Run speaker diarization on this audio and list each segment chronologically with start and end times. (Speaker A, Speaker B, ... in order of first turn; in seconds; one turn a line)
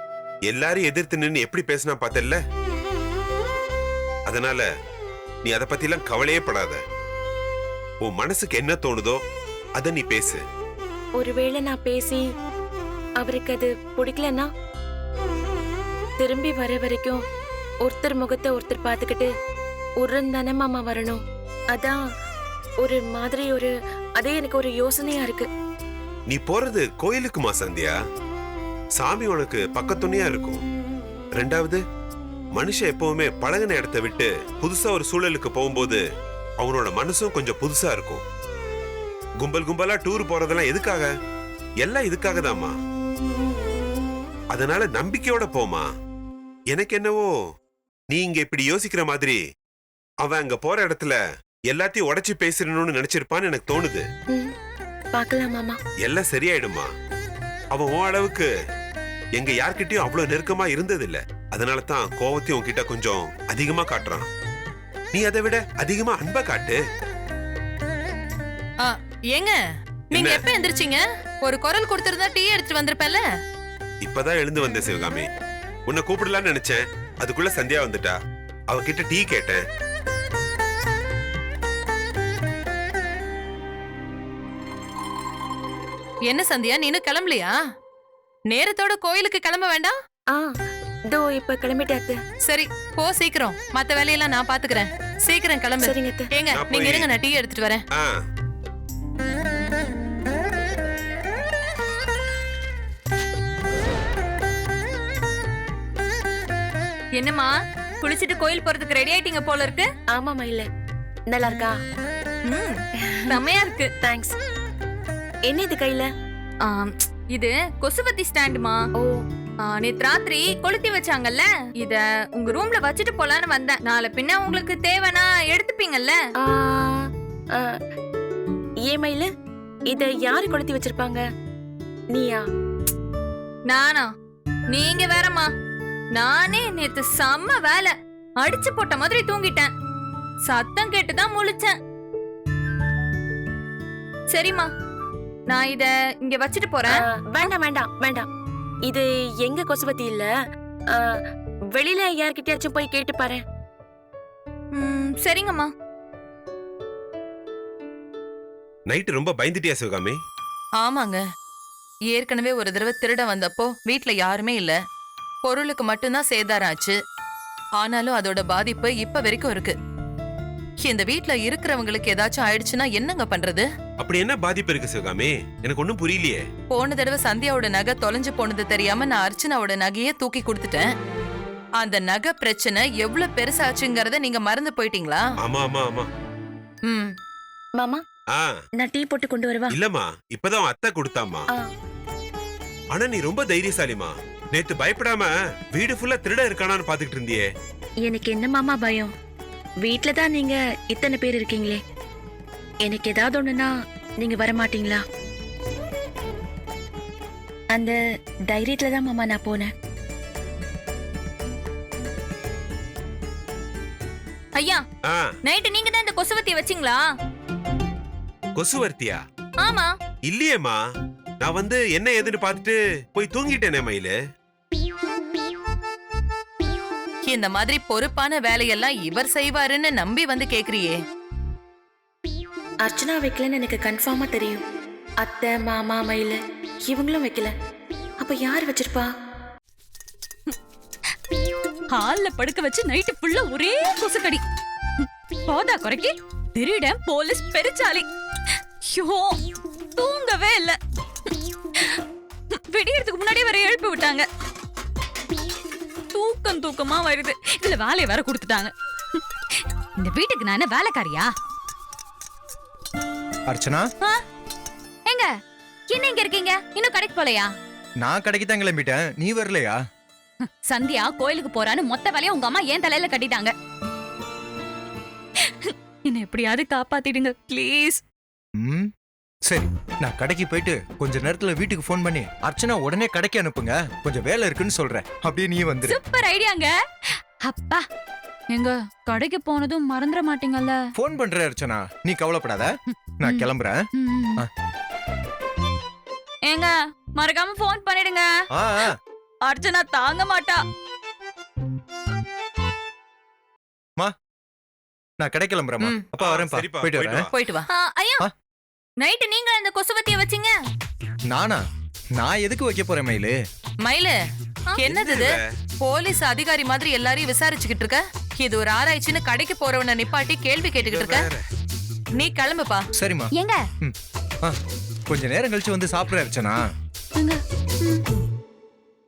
Speaker A: 0.5-2.4
Speaker A: 4.3-4.7
Speaker A: 5.4-6.8
Speaker A: 8.0-9.2
Speaker A: 9.8-10.4
Speaker B: 11.2-12.2
Speaker B: 13.2-14.5
Speaker B: 16.2-17.2
Speaker B: 17.9-19.3
Speaker B: 20.0-21.2
Speaker B: 22.8-25.5
Speaker A: 26.3-28.0
Speaker A: 29.0-30.6
Speaker A: 31.4-31.8
Speaker A: 32.5-36.0
Speaker A: 36.6-38.2
Speaker A: 39.4-41.1
Speaker A: 41.8-42.8
Speaker A: 44.5-45.9
Speaker A: 46.7-47.3
Speaker A: 48.1-49.4
Speaker A: 50.2-51.2
Speaker A: 51.7-54.0
Speaker B: 55.1-55.8
Speaker A: 56.0-56.9
Speaker A: 57.7-58.5
Speaker A: 59.4-64.3
Speaker A: 65.1-66.8
Speaker C: 68.8-69.6
Speaker C: 70.1-73.2
Speaker A: 70.1-70.4
Speaker A: 74.0-75.3
Speaker A: 75.9-78.2
Speaker A: 78.7-79.6
Speaker C: 86.3-87.5
Speaker C: 88.5-89.9
Speaker B: 91.1-92.2
Speaker C: 92.4-97.8
Speaker B: 95.8-96.3
Speaker A: 96.5-97.1
Speaker A: 97.9-98.2
Speaker D: 107.2-109.9
Speaker B: 110.1-110.7
Speaker B: 111.3-111.8
Speaker D: 112.4-113.9
Speaker B: 113.0-113.4
Speaker B: 114.0-114.4
Speaker B: 115.5-116.1
Speaker D: 116.6-118.8
Speaker D: 119.6-126.2
Speaker B: 126.4-127.8
Speaker B: 128.9-129.3
Speaker B: 129.9-131.2
Speaker B: 132.1-132.4
Speaker D: 133.7-134.1
Speaker D: 134.7-135.5
Speaker D: 136.1-139.7
Speaker D: 140.5-141.8
Speaker D: 144.3-144.7
Speaker D: 145.5-146.9
Speaker B: 146.9-148.3
Speaker B: 148.9-150.3
Speaker B: 150.9-151.2
Speaker B: 151.7-153.4
Speaker D: 154.7-155.7
Speaker A: 158.9-160.2
Speaker C: 160.8-161.2
Speaker C: 162.1-164.8
Speaker C: 165.5-166.9
Speaker C: 167.8-169.8
Speaker C: 170.8-173.7
Speaker A: 174.0-176.4
Speaker C: 176.7-180.9
Speaker C: 181.8-185.2
Speaker A: 185.4-186.1
Speaker C: 186.9-187.1
Speaker B: 187.8-188.0
Speaker A: 188.3-188.6
Speaker B: 188.8-189.7
Speaker A: 189.7-191.5
Speaker A: 192.9-197.5
Speaker B: 198.0-199.1
Speaker B: 199.8-201.8
Speaker B: 202.8-205.0
Speaker B: 208.5-209.7
Speaker D: 214.6-214.8
Speaker A: 215.1-215.3
Speaker D: 215.4-217.0
Speaker A: 218.6-219.2
Speaker D: 219.6-219.9
Speaker A: 220.2-220.8
Speaker A: 221.4-224.1
Speaker C: 227.3-231.0
Speaker B: 232.8-234.6
Speaker B: 235.2-237.5
Speaker B: 238.2-239.1
Speaker E: 241.9-244.4
Speaker E: 245.0-248.1
Speaker E: 248.9-249.4
Speaker E: 250.0-250.8
Speaker E: 252.5-254.2
Speaker E: 256.1-259.2
Speaker E: 260.0-261.3
Speaker F: 263.5-263.9
Speaker E: 265.9-267.5
Speaker F: 268.0-269.8
Speaker E: 270.4-273.5
Speaker E: 275.4-278.0
Speaker F: 278.6-278.9
Speaker F: 279.5-286.0
Speaker E: 285.9-286.7
Speaker E: 287.5-287.9
Speaker E: 288.5-290.8
Speaker F: 291.0-292.7
Speaker F: 293.2-293.8
Speaker E: 293.2-294.4
Speaker E: 296.5-298.3
Speaker F: 298.5-298.9
Speaker E: 299.4-300.6
Speaker F: 305.2-307.2
Speaker A: 306.2-307.3
Speaker C: 307.3-307.6
Speaker D: 307.7-308.2
Speaker D: 309.0-310.6
Speaker F: 311.3-311.6
Speaker F: 312.2-313.3
Speaker C: 313.9-314.2
Speaker C: 314.8-321.2
Speaker A: 314.8-315.4
Speaker A: 320.8-321.4
Speaker C: 322.2-322.8
Speaker F: 323.0-323.3
Speaker F: 323.8-324.6
Speaker F: 325.1-326.6
Speaker E: 327.2-328.0